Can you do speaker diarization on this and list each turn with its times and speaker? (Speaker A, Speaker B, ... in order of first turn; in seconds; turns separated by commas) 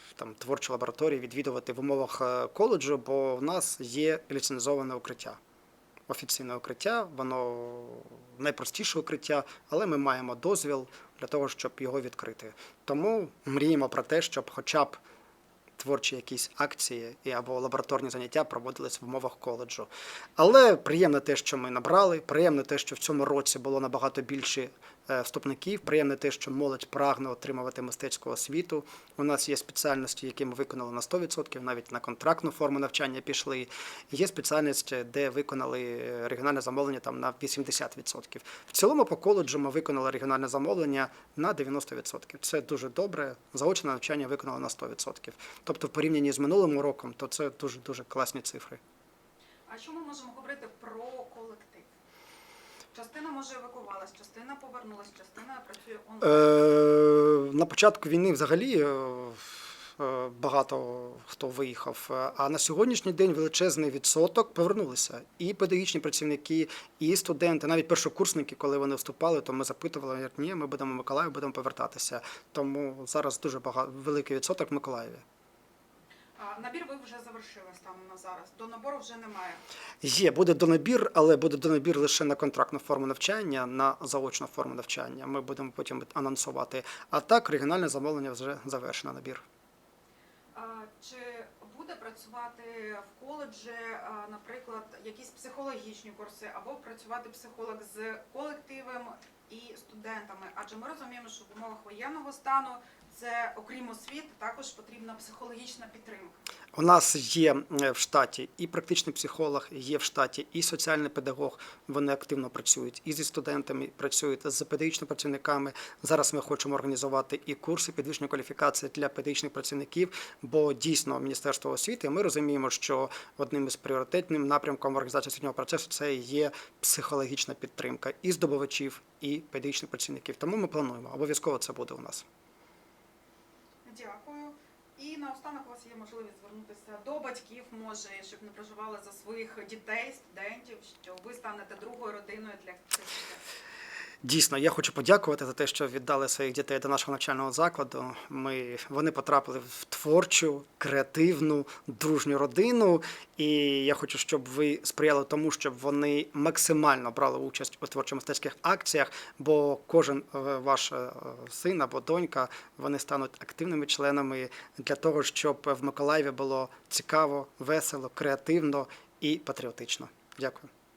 Speaker A: 0.2-5.4, Speaker A: 6.1-15.0, Speaker A: 15.8-48.8, Speaker B: 49.7-51.9, Speaker B: 52.9-56.6, Speaker A: 56.2-75.2, Speaker B: 76.4-79.6, Speaker A: 80.0-89.4, Speaker B: 90.5-106.4, Speaker A: 106.8-132.2, Speaker B: 133.8-143.4, Speaker A: 144.2-170.7